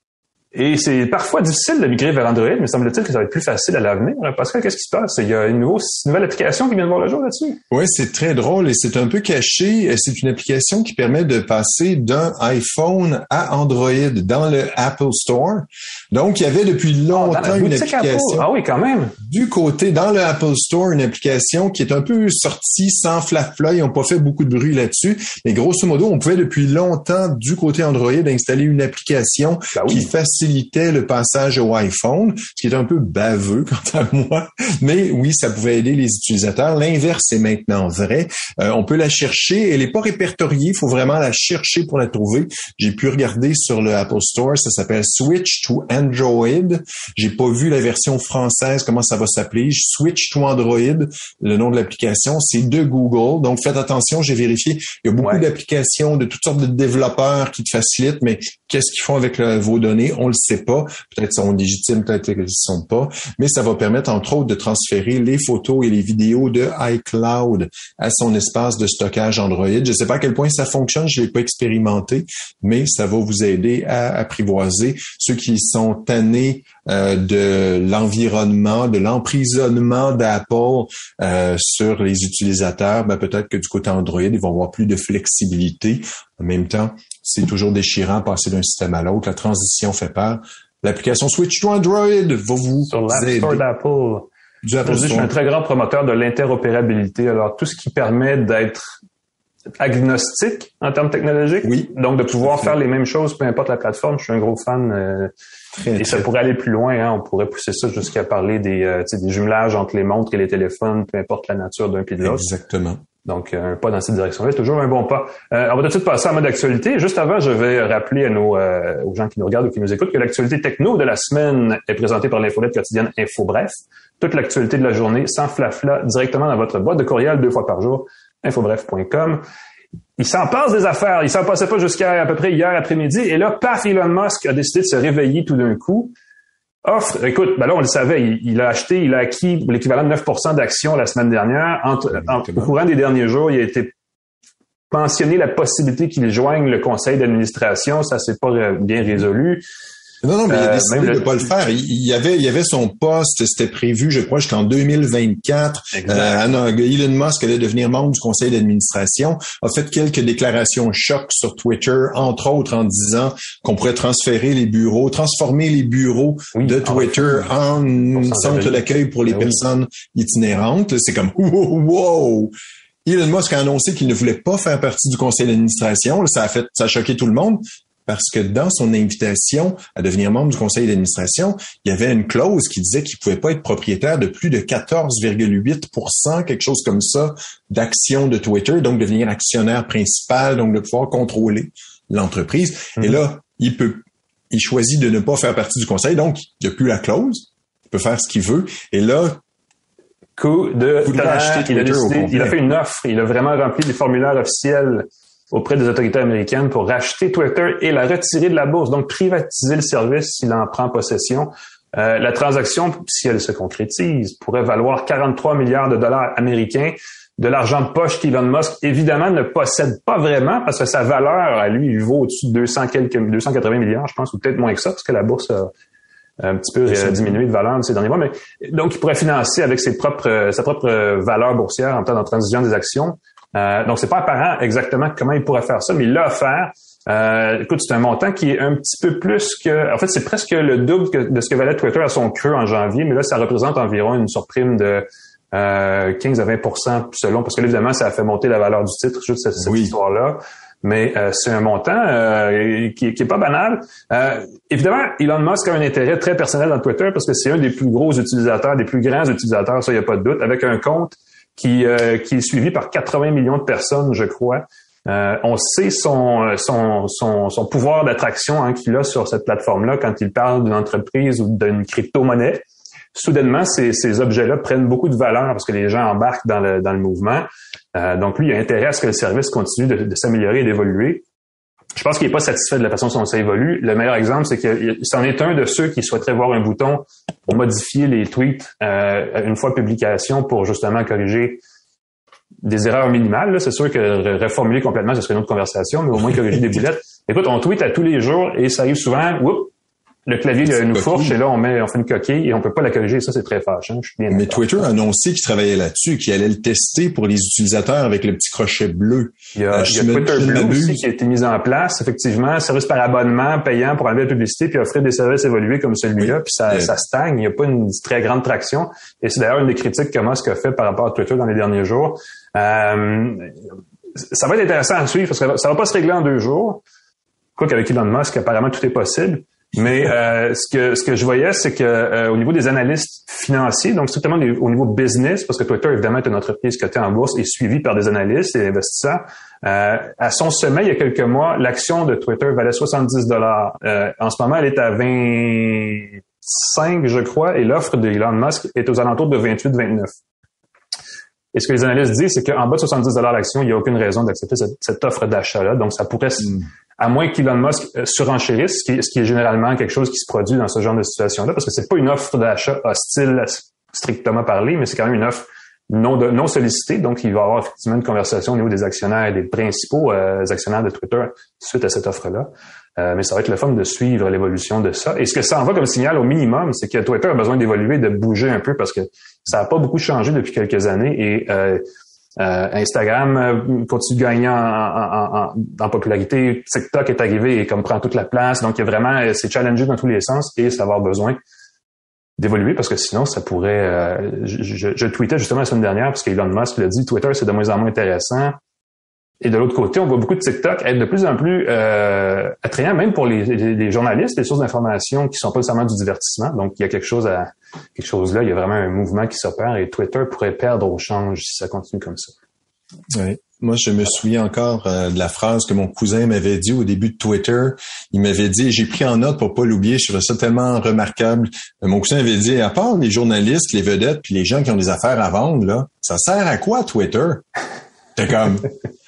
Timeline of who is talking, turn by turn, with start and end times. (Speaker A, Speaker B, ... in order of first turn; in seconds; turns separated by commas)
Speaker A: 0.5-7.6, Speaker B: 7.7-18.5, Speaker A: 17.1-19.1, Speaker B: 19.2-93.6, Speaker A: 29.8-30.1, Speaker A: 92.9-94.3, Speaker B: 94.6-95.3, Speaker A: 94.8-99.0, Speaker A: 99.8-105.3, Speaker B: 101.6-102.8, Speaker B: 105.8-106.3, Speaker A: 106.0-112.5, Speaker B: 112.2-113.0, Speaker A: 113.2-129.4, Speaker A: 130.2-136.1, Speaker A: 136.8-143.9, Speaker B: 142.2-142.7, Speaker A: 144.9-149.6, Speaker B: 150.2-172.5, Speaker A: 150.5-151.3, Speaker A: 155.9-156.4, Speaker A: 166.6-167.5, Speaker A: 168.2-169.6, Speaker B: 173.1-199.4, Speaker A: 200.4-225.7, Speaker B: 201.0-202.6, Speaker A: 226.4-281.2, Speaker B: 226.9-227.4, Speaker B: 249.6-249.9, Speaker A: 282.0-291.6, Speaker A: 292.6-299.7, Speaker A: 300.3-304.8, Speaker B: 300.7-301.4, Speaker B: 304.3-311.0, Speaker A: 309.6-323.5, Speaker B: 316.2-316.9, Speaker A: 324.2-326.8, Speaker A: 327.6-350.1, Speaker A: 351.5-381.8, Speaker A: 382.4-391.4, Speaker A: 392.4-398.6, Speaker A: 399.4-412.3, Speaker B: 413.1-427.4, Speaker B: 428.2-428.7